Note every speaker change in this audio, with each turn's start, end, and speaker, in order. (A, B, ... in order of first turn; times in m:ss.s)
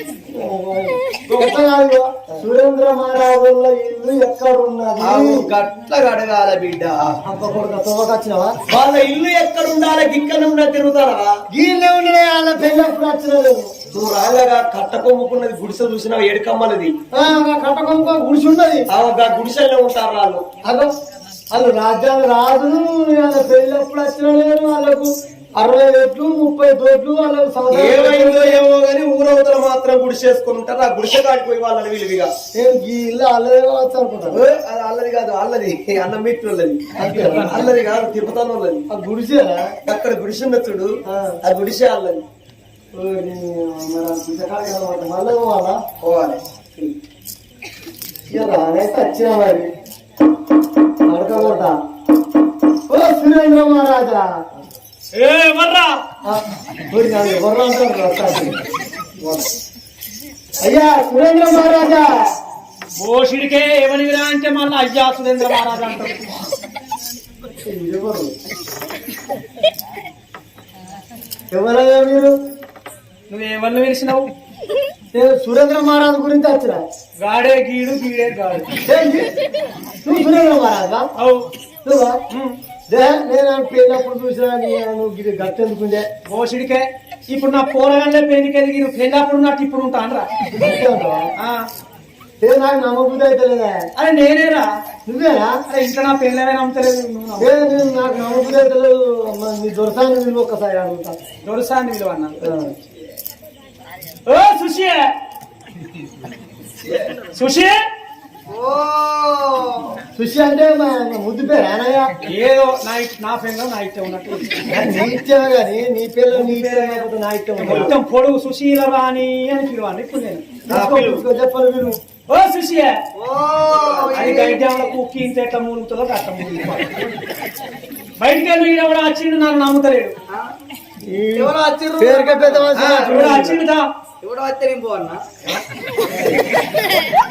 0:00.3-0:05.5 A
0:05.0-0:07.2 B
0:07.2-0:08.6 A
0:08.7-0:11.3 B
0:11.5-0:13.7 A
0:13.9-0:16.9 B
0:17.1-0:18.9 A
0:18.9-0:20.4 B
0:21.5-0:28.6 A
0:27.7-0:32.3 B
0:32.5-0:34.4 A
0:34.3-0:38.8 B
0:37.0-0:37.7 A
0:38.9-0:39.7 A
0:39.8-0:42.2 B
0:41.1-0:41.4 A
0:42.9-0:45.8 A
0:46.0-0:46.8 B
0:48.3-0:49.7 A
0:51.1-0:51.7 A
0:52.9-0:54.2 A
0:55.2-0:55.9 C
0:56.2-0:58.6 A
1:00.6-1:02.1 A
1:03.0-1:06.3 C
1:07.6-1:08.3 A
1:11.5-1:12.3 A
1:13.3-1:14.2 C
1:15.1-1:16.8 A
1:17.2-1:18.7 C
1:18.8-1:19.3 A
1:20.0-1:21.1 A
1:21.2-1:21.5 C
1:21.8-1:22.2 A
1:22.3-1:22.5 C
1:22.9-1:26.0 A
1:26.3-1:30.3 C
1:30.5-1:31.3 A
1:31.4-1:31.6 C
1:32.4-1:33.9 A
1:34.0-1:34.7 C
1:35.0-1:35.6 A
1:35.7-1:37.7 C
1:37.4-1:41.2 A
1:41.4-1:42.5 C
1:42.4-1:42.7 A
1:44.3-1:45.1 C
1:46.8-1:47.1 B
1:47.3-1:47.8 C
1:48.5-1:49.9 D
1:50.1-1:52.1 A
1:52.3-1:54.6 C
1:54.6-1:57.9 A
1:56.3-1:57.0 C
1:57.6-2:00.7 C
2:00.7-2:02.0 A
2:00.7-2:01.2 B
2:02.3-2:03.0 C
2:03.2-2:04.8 D
2:04.1-2:06.9 C
2:04.2-2:04.5 A
2:08.2-2:10.1 C
2:11.1-2:13.6 A
2:11.4-2:13.4 D
2:12.9-2:13.9 C
2:14.2-2:15.2 D